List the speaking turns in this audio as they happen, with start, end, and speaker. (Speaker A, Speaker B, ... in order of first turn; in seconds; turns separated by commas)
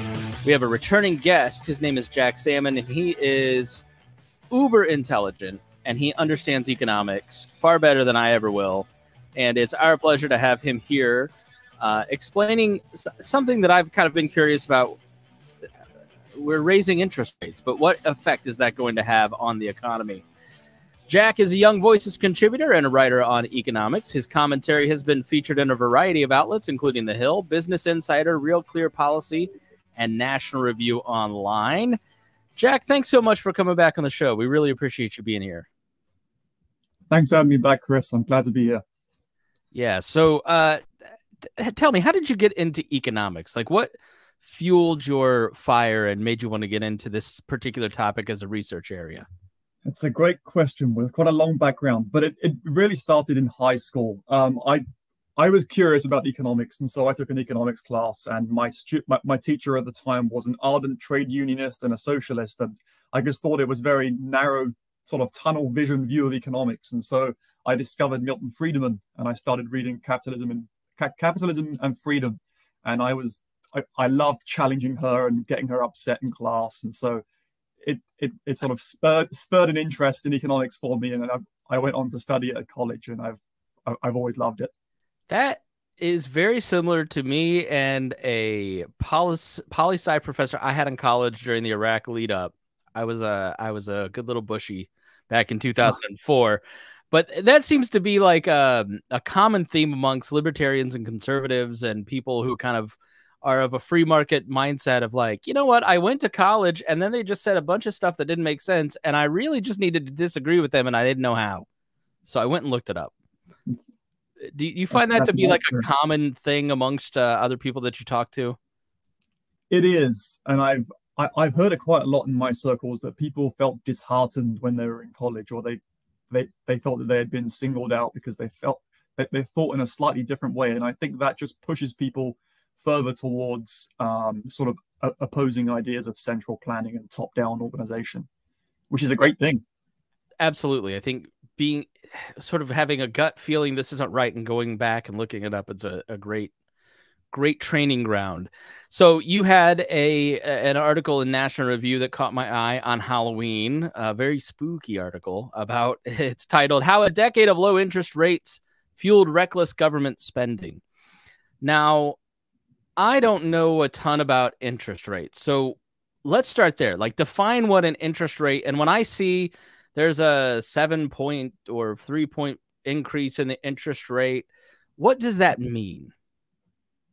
Speaker A: 0.5-3.9, Speaker A: 4.5-15.0, Speaker A: 16.4-20.2, Speaker A: 21.1-32.0, Speaker A: 32.6-35.7, Speaker B: 37.1-38.8, Speaker A: 39.7-40.8, Speaker A: 41.6-49.3, Speaker B: 49.9-54.8, Speaker B: 55.4-77.2, Speaker B: 77.8-84.7, Speaker A: 85.3-111.7, Speaker A: 112.2-113.1, Speaker A: 114.5-118.6, Speaker B: 114.9-115.9, Speaker B: 119.7-138.3, Speaker B: 138.9-139.6, Speaker A: 140.4-146.5, Speaker A: 147.3-160.8, Speaker A: 161.6-162.2, Speaker A: 163.0-174.5, Speaker A: 175.0-176.1